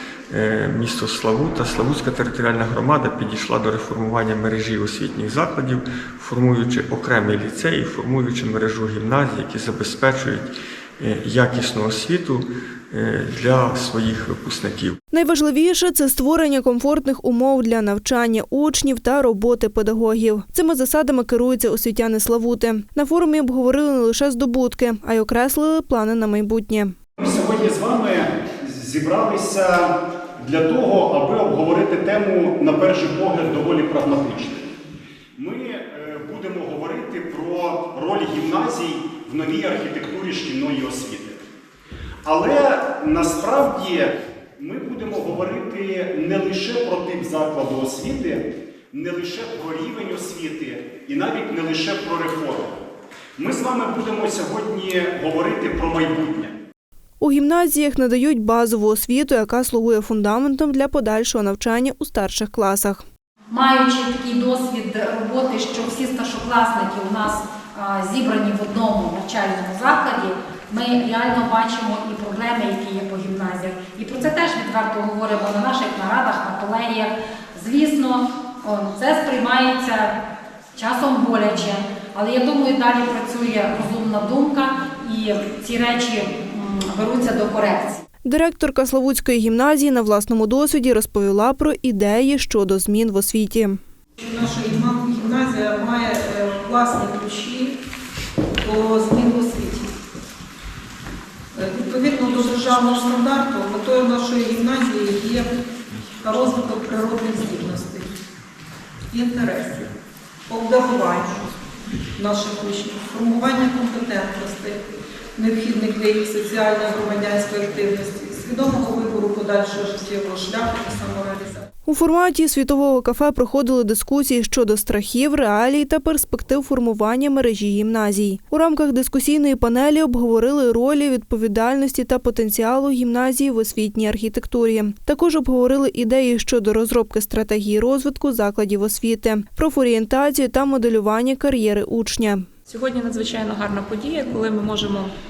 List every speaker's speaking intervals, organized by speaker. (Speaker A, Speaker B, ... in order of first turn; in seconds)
Speaker A: 0.3-15.0
Speaker B: 15.1-26.9, 57.2-63.0, 88.2-93.8, 121.8-142.4
Speaker C: 27.2-34.7, 35.4-41.4, 42.2-52.8, 53.4-56.5
Speaker D: 63.5-80.1, 80.7-88.0
Speaker E: 94.2-97.8, 98.6-99.9, 101.5-105.5, 106.2-108.2, 109.1-109.9, 110.5-111.5, 112.2-114.8, 115.4-121.7
Speaker F: 142.7-145.1